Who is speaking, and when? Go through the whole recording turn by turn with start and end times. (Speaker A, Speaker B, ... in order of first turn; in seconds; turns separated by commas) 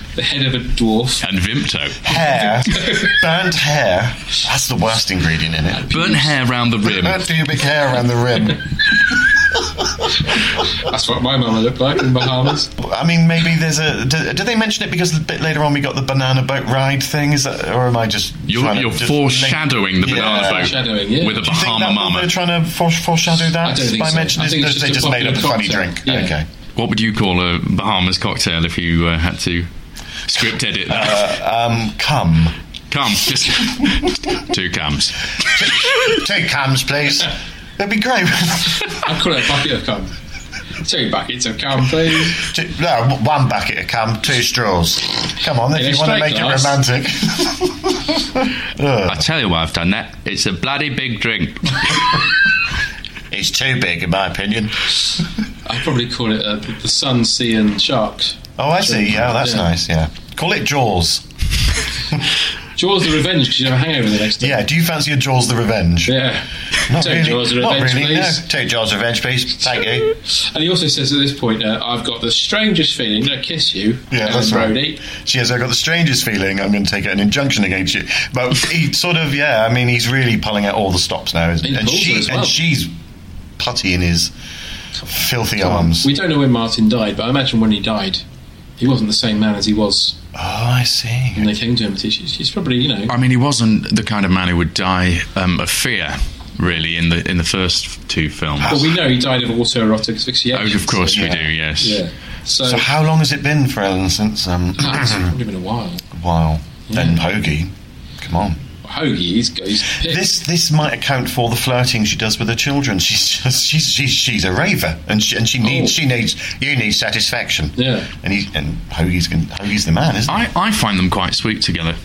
Speaker A: 0.1-1.2, Speaker B: 1.2-2.0, Speaker C: 2.0-6.2, Speaker B: 5.9-7.2, Speaker C: 6.8-8.6, Speaker A: 10.9-12.7, Speaker C: 12.8-20.7, Speaker B: 18.5-22.3, Speaker A: 20.2-21.4, Speaker C: 21.3-26.4, Speaker A: 23.6-26.3, Speaker B: 26.8-29.7, Speaker B: 30.3-31.3, Speaker C: 30.9-32.5, Speaker B: 32.9-34.0, Speaker B: 34.5-35.1, Speaker C: 36.1-38.8, Speaker A: 39.0-40.1, Speaker A: 40.8-42.4, Speaker C: 42.2-47.7, Speaker A: 45.7-46.8, Speaker C: 48.8-49.3, Speaker B: 49.1-51.6, Speaker C: 53.3-54.7, Speaker A: 55.6-59.7, Speaker C: 58.6-61.2, Speaker A: 62.8-64.6, Speaker C: 64.4-66.2, Speaker A: 66.0-66.4, Speaker C: 66.9-70.1, Speaker A: 67.0-68.4, Speaker A: 70.5-75.0, Speaker C: 74.1-82.9, Speaker A: 81.6-82.6, Speaker C: 83.6-84.3, Speaker C: 85.1-86.1, Speaker A: 85.6-88.2, Speaker A: 88.8-90.2, Speaker C: 90.3-91.5, Speaker A: 91.3-93.1, Speaker B: 93.1-98.8, Speaker A: 98.7-102.8, Speaker B: 100.5-102.0, Speaker C: 101.1-101.5, Speaker C: 102.6-105.3, Speaker A: 104.8-106.0, Speaker C: 106.1-108.6, Speaker A: 106.9-107.2, Speaker A: 108.8-110.2, Speaker C: 109.9-120.4, Speaker A: 115.6-115.9, Speaker A: 117.8-118.0, Speaker B: 120.3-122.0